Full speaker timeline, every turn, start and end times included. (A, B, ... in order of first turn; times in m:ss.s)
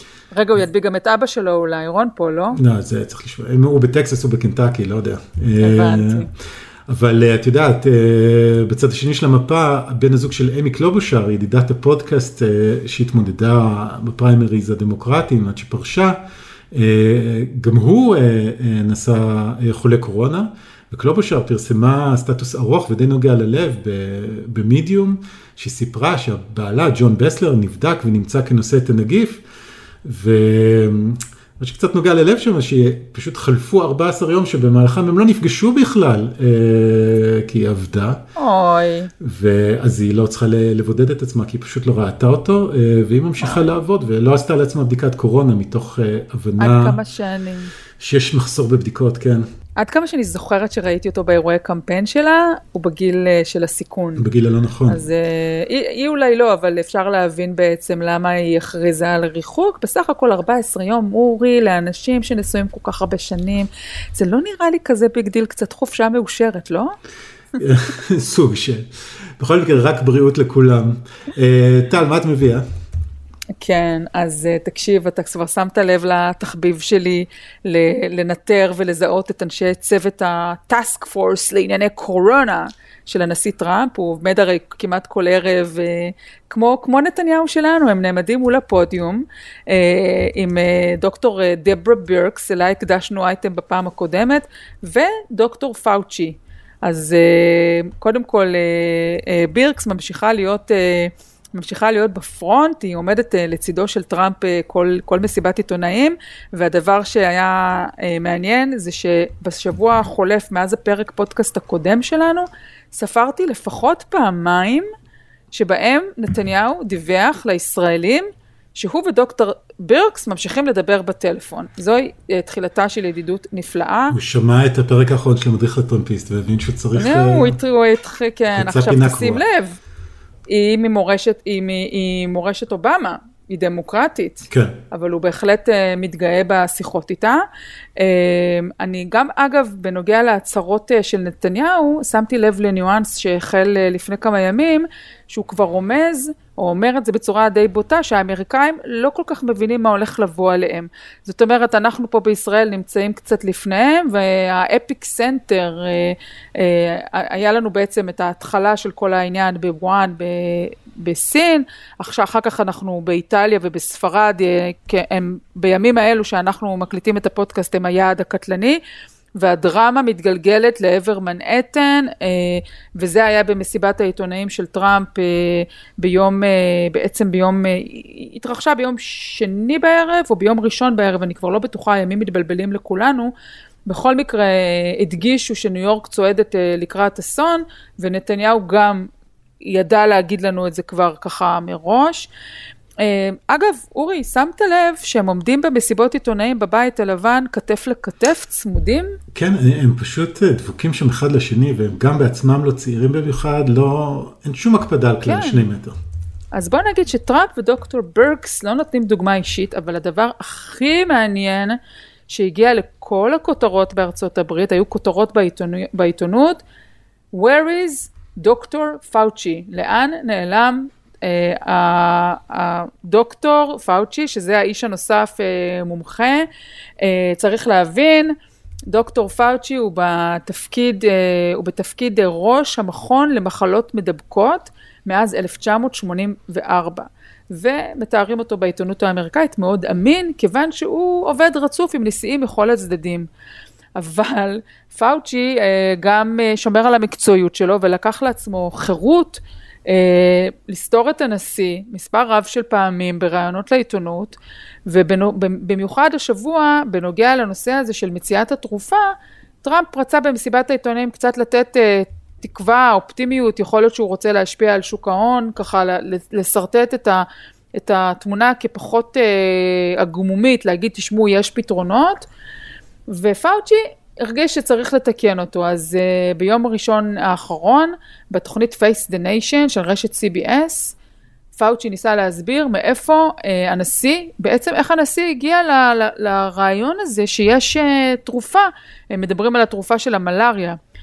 0:00.3-0:02.6 A
0:02.6-0:06.3 B
0:05.6-0:06.3 A
0:06.9-0:29.4 B
0:30.0-0:38.2 B
0:38.4-0:39.1 A
0:39.2-0:47.0 B
0:46.6-0:47.7 A
0:48.0-0:49.5 B
0:49.8-0:54.2 A
0:54.2-0:55.0 B
0:54.9-1:06.9 A
1:07.6-1:12.6 B
1:13.6-1:54.8 A
1:55.5-2:04.1 A
2:04.1-2:07.6 B
2:07.0-2:09.8 A
2:08.5-2:09.4 B
2:10.5-2:17.4 A
2:14.5-2:14.8 B
2:18.0-2:48.8 A
2:49.4-3:03.3 A
3:03.9-3:09.1 A
3:09.6-3:12.3 A
3:13.0-3:19.2 A
3:19.3-3:26.0 B
3:25.2-3:25.6 A
3:26.5-3:31.8 A
3:32.3-3:36.6 A
3:37.3-3:46.4 A
3:47.0-3:48.3 A
3:48.9-4:03.3 A
4:04.0-4:14.4 A
4:14.9-4:19.1 A
4:19.6-4:27.2 A
4:27.8-4:32.2 A
4:33.1-4:40.9 A
4:41.6-4:50.8 A